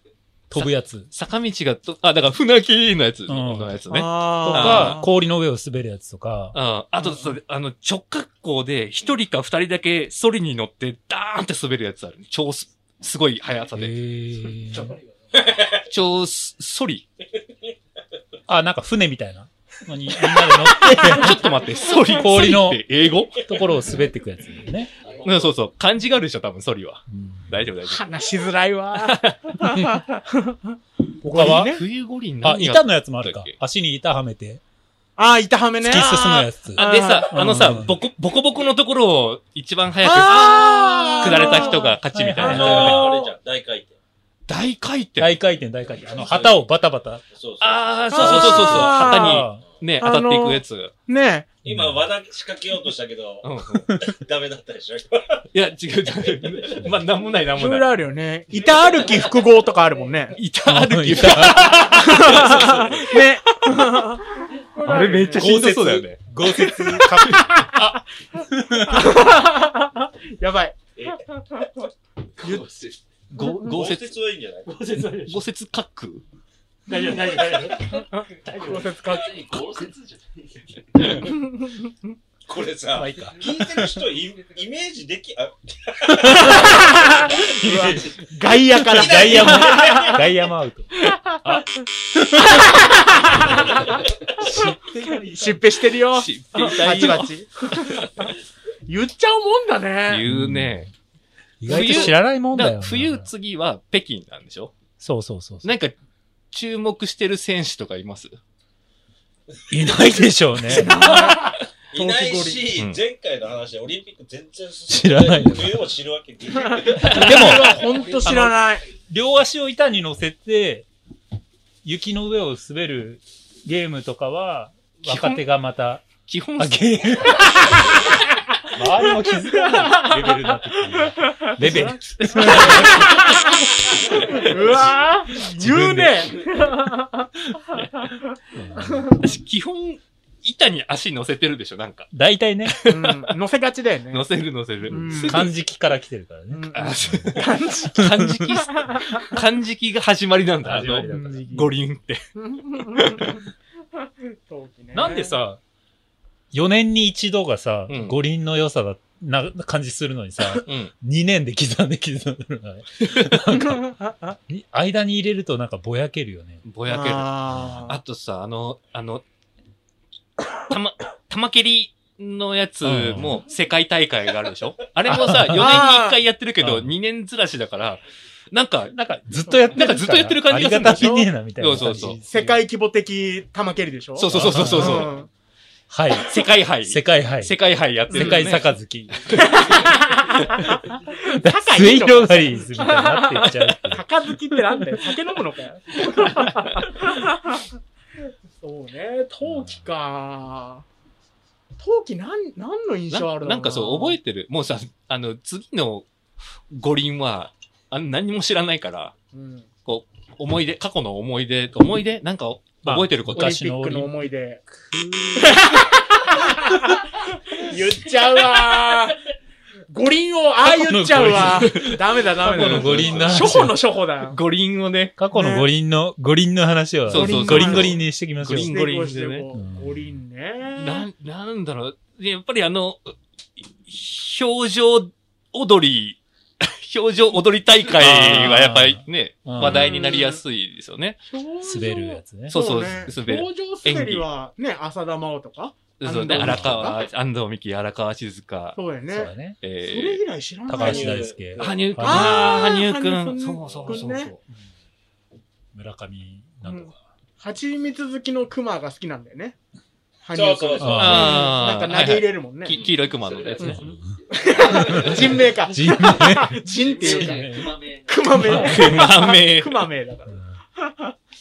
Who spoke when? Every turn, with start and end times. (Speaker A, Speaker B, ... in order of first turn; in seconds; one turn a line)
Speaker A: 0.5-1.1
Speaker B: 0.5-5.0
Speaker A: 3.3-3.8
Speaker C: 3.9-5.1
Speaker A: 4.4-6.6
Speaker B: 6.5-14.0
Speaker C: 7.0-7.3
Speaker A: 13.7-15.0
Speaker D: 15.3-15.8
Speaker B: 15.8-17.1
Speaker A: 18.5-21.4
Speaker B: 20.8-23.4
Speaker C: 20.8-21.2
Speaker A: 22.1-22.8
Speaker A: 23.4-24.9
Speaker B: 25.2-28.2
Speaker A: 27.1-27.6
Speaker C: 27.9-31.8
Speaker B: 29.0-29.6
Speaker A: 29.6-30.0
Speaker A: 31.2-31.8
Speaker B: 31.3-33.5
Speaker A: 32.4-34.6
Speaker C: 35.2-37.6
Speaker A: 35.8-38.0
Speaker B: 36.8-43.1
Speaker C: 40.0-43.3
Speaker A: 41.9-43.1
Speaker D: 42.5-44.0
Speaker B: 44.5-45.4
Speaker A: 45.2-47.2
Speaker D: 46.0-46.6
Speaker D: 47.3-49.0
Speaker B: 47.6-50.9
Speaker C: 48.1-49.5
Speaker A: 48.2-49.6
Speaker C: 50.0-51.5
Speaker D: 51.6-55.4
Speaker A: 51.6-52.0
Speaker B: 53.4-53.9
Speaker B: 55.5-57.9
Speaker C: 57.5-60.4
Speaker B: 60.4-63.1
Speaker A: 60.7-61.9
Speaker C: 61.3-65.6
Speaker D: 62.6-63.1
Speaker B: 64.8-67.7
Speaker A: 65.4-69.2
Speaker C: 66.6-67.8
Speaker C: 68.9-70.8
Speaker C: 72.4-72.7
Speaker B: 73.3-74.2
Speaker D: 73.6-74.9
Speaker A: 74.7-75.5
Speaker B: 75.0-76.2
Speaker A: 76.9-78.8
Speaker C: 78.6-79.6
Speaker E: 79.3-80.4
Speaker C: 81.2-81.9
Speaker D: 82.5-87.8
Speaker A: 83.0-83.9
Speaker C: 86.2-90.2
Speaker D: 88.8-90.2
Speaker A: 89.0-92.8
Speaker C: 91.0-91.6
Speaker C: 92.5-93.8
Speaker A: 93.3-95.6
Speaker C: 95.3-98.3
Speaker B: 96.1-97.3
Speaker C: 98.9-100.3
Speaker B: 100.1-100.9
Speaker A: 100.3-100.9
Speaker A: 101.6-103.3
Speaker B: 101.7-104.7
Speaker C: 101.7-102.1
Speaker A: 105.0-105.7
Speaker B: 105.6-105.9
Speaker B: 106.5-108.3
Speaker A: 109.7-111.0
Speaker C: 110.7-112.7
Speaker D: 111.0-117.5
Speaker B: 112.8-113.0
Speaker A: 114.9-115.9
Speaker C: 116.7-118.9
Speaker A: 117.0-120.9
Speaker B: 117.2-117.6
Speaker A: 121.8-126.1
Speaker B: 125.0-125.4
Speaker B: 126.3-126.8
Speaker A: 126.6-127.9
Speaker C: 127.7-128.5
Speaker A: 128.7-133.1
Speaker C: 129.5-130.5
Speaker C: 131.3-137.3
Speaker B: 131.6-133.2
Speaker A: 135.4-136.4
Speaker B: 137.7-138.1
Speaker A: 138.6-139.1
Speaker C: 138.9-139.2
Speaker B: 139.0-142.1
Speaker A: 142.1-142.8
Speaker B: 142.6-143.3
Speaker C: 142.9-144.3
Speaker B: 144.1-145.5
Speaker C: 144.9-145.5
Speaker A: 145.0-147.3
Speaker C: 146.5-148.1
Speaker B: 146.7-152.2
Speaker A: 148.0-148.5
Speaker C: 148.9-149.2
Speaker A: 150.6-151.5
Speaker C: 150.9-151.7
Speaker C: 152.4-153.4
Speaker B: 152.9-153.4
Speaker C: 154.3-155.4
Speaker A: 154.9-155.6
Speaker A: 156.5-163.9
Speaker B: 157.9-158.2
Speaker B: 160.6-160.9
Speaker C: 163.5-164.4
Speaker A: 164.5-166.6
Speaker B: 166.6-169.2
Speaker C: 166.9-168.0
Speaker A: 167.5-167.9
Speaker B: 170.6-178.9
Speaker A: 172.8-173.4
Speaker A: 175.1-175.8
Speaker C: 175.5-176.2
Speaker A: 176.6-176.9
Speaker A: 178.9-182.7
Speaker C: 179.5-179.8
Speaker B: 179.7-182.2
Speaker C: 180.8-185.3
Speaker B: 184.2-185.1
Speaker A: 184.2-185.1
Speaker A: 185.9-187.5
Speaker B: 186.2-188.7
Speaker A: 188.1-189.4
Speaker C: 188.1-188.5
Speaker B: 189.3-190.8
Speaker C: 189.4-197.6
Speaker A: 191.4-194.1
Speaker B: 196.1-196.7
Speaker C: 198.6-200.8
Speaker A: 199.4-199.8
Speaker C: 201.8-204.2
Speaker B: 203.1-206.1
Speaker B: 206.7-209.2
Speaker C: 209.3-209.7
Speaker B: 209.8-213.5
Speaker A: 212.8-214.2
Speaker C: 213.3-214.6
Speaker A: 214.7-215.8
Speaker C: 215.4-219.2
Speaker C: 219.9-224.4
Speaker A: 220.6-223.8
Speaker B: 221.2-223.6
Speaker B: 224.2-225.2
Speaker A: 225.2-228.8
Speaker C: 225.3-225.7
Speaker B: 227.1-229.5
Speaker C: 227.1-228.0
Speaker C: 228.6-231.1
Speaker A: 229.5-230.0
Speaker B: 230.8-233.2
Speaker B: 233.8-241.2
Speaker A: 238.0-239.9
Speaker C: 239.6-240.4
Speaker C: 241.3-247.0
Speaker A: 241.6-243.1
Speaker B: 242.5-244.3
Speaker B: 246.0-248.8
Speaker A: 246.3-246.8
Speaker C: 248.8-251.3
Speaker A: 249.1-249.6
Speaker B: 249.6-250.2
Speaker A: 250.7-252.4
Speaker D: 250.7-252.2
Speaker B: 251.6-254.3
Speaker C: 252.0-254.4
Speaker D: 253.7-254.0
Speaker A: 255.7-257.0
Speaker C: 256.6-259.6
Speaker C: 260.2-262.8
Speaker D: 260.3-261.3
Speaker A: 260.8-261.5
Speaker B: 260.9-263.9
Speaker D: 262.7-263.5
Speaker E: 263.3-263.7
Speaker C: 263.6-271.1
Speaker A: 263.6-264.0
Speaker E: 264.3-265.0
Speaker A: 264.6-267.8
Speaker E: 266.8-268.1
Speaker A: 268.4-269.1
Speaker B: 268.4-269.9